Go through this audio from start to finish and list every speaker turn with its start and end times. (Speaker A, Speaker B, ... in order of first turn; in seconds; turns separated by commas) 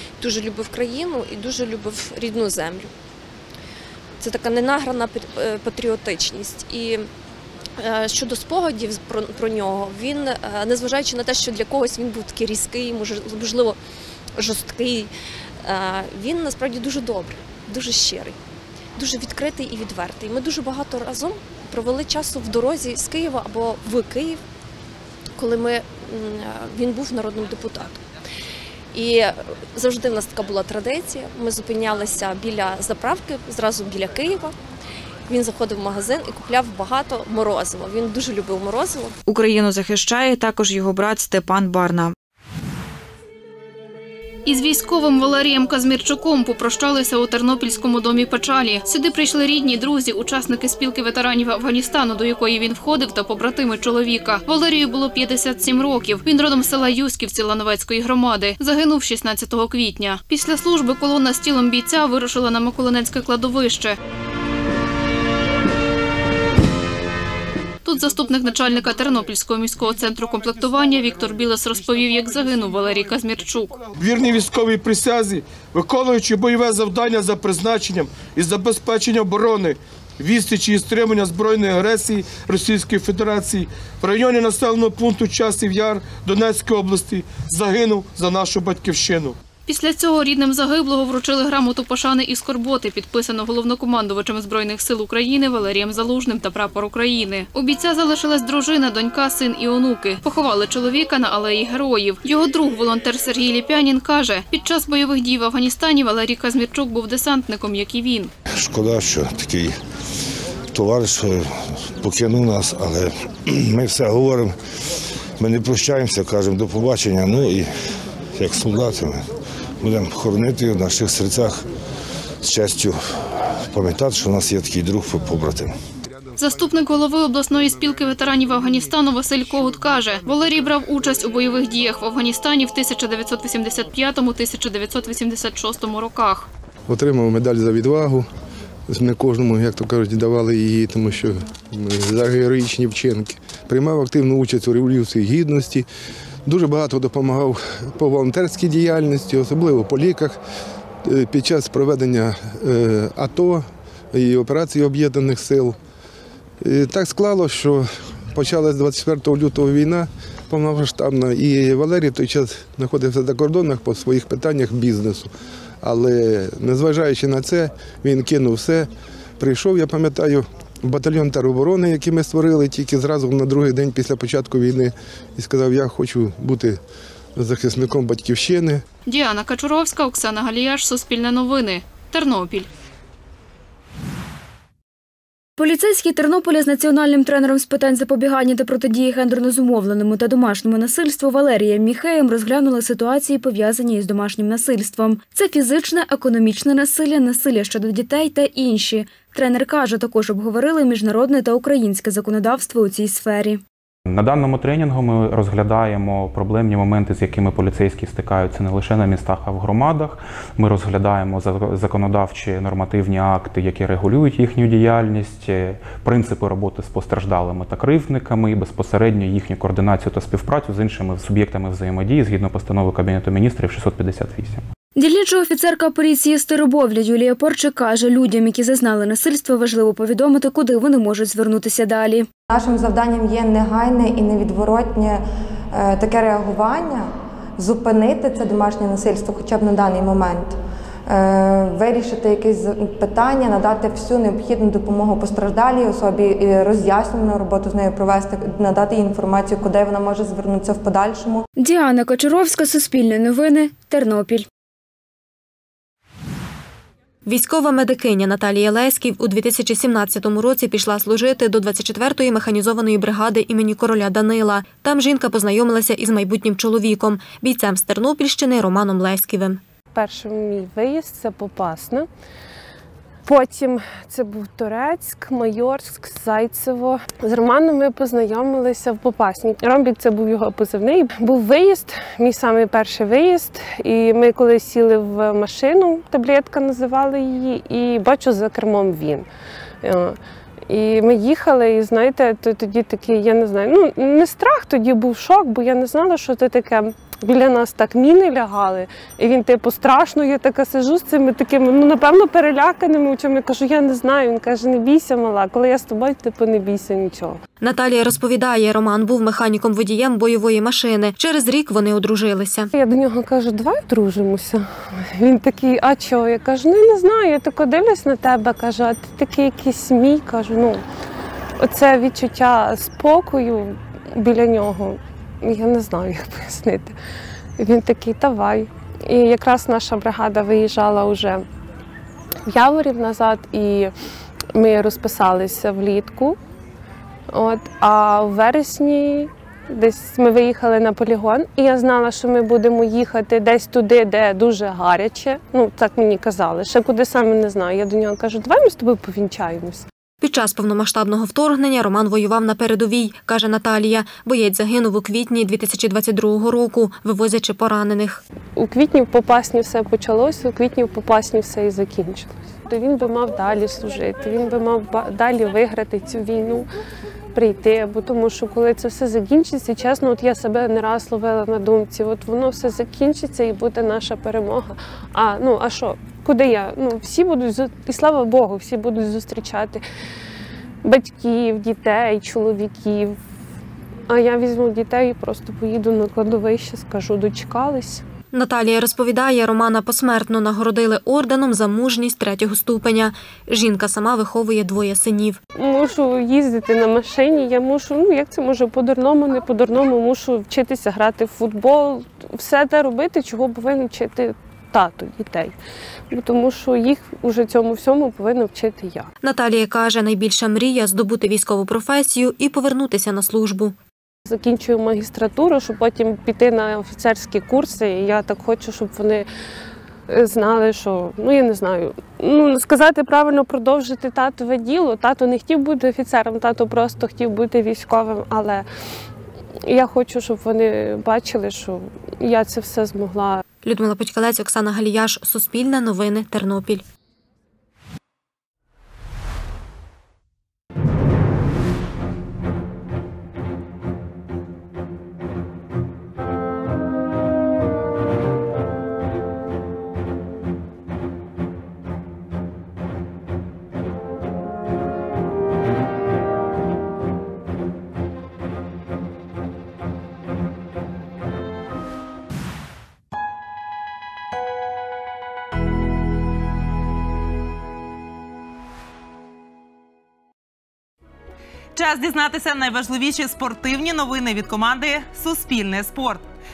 Speaker A: 0.2-2.9, Speaker A: 4.2-7.1, Speaker A: 7.8-13.8, Speaker A: 14.4-15.1, Speaker A: 15.6-18.4, Speaker A: 18.9-24.4, Speaker A: 25.4-28.0, Speaker A: 28.9-34.5, Speaker A: 35.3-39.1, Speaker B: 39.2-42.1, Speaker C: 44.5-64.0, Speaker C: 67.8-73.8, Speaker D: 74.0-89.4, Speaker C: 89.7-108.3, Speaker E: 108.5-109.7, Speaker E: 110.7-111.4, Speaker E: 112.0-114.5, Speaker E: 115.4-117.7, Speaker E: 118.3-119.2, Speaker E: 119.8-121.6, Speaker E: 122.4-123.0, Speaker E: 123.7-125.7, Speaker C: 126.4-136.5, Speaker F: 136.9-138.2, Speaker F: 138.9-145.8, Speaker F: 146.4-150.4, Speaker F: 151.0-155.8, Speaker F: 156.6-165.3, Speaker F: 165.8-168.9, Speaker F: 169.4-176.8, Speaker F: 177.3-178.8, Speaker C: 179.1-182.7, Speaker G: 185.6-203.6, Speaker H: 204.1-224.6, Speaker G: 224.9-232.3, Speaker I: 232.5-240.6, Speaker I: 241.1-251.4, Speaker G: 251.6-254.4, Speaker J: 257.2-269.6, Speaker K: 269.9-272.1, Speaker K: 273.2-289.2, Speaker K: 289.8-290.2, Speaker K: 290.7-307.4, Speaker J: 307.6-312.7, Speaker K: 312.8-320.8, Speaker K: 321.6-326.9, Speaker K: 327.6-331.4, Speaker K: 332.5-333.9, Speaker K: 334.5-336.4, Speaker K: 337.3-349.8, Speaker J: 350.2-358.2, Speaker K: 358.6-366.7, Speaker K: 367.3-379.8, Speaker K: 380.8-383.2, Speaker K: 384.1-388.0, Speaker J: 388.3-395.4, Speaker K: 395.6-405.5, Speaker K: 406.1-409.1, Speaker J: 409.2-413.8, Speaker K: 414.2-419.3, Speaker K: 420.1-428.6, Speaker K: 429.6-433.4, Speaker J: 433.6-436.8, Speaker L: 471.8-476.2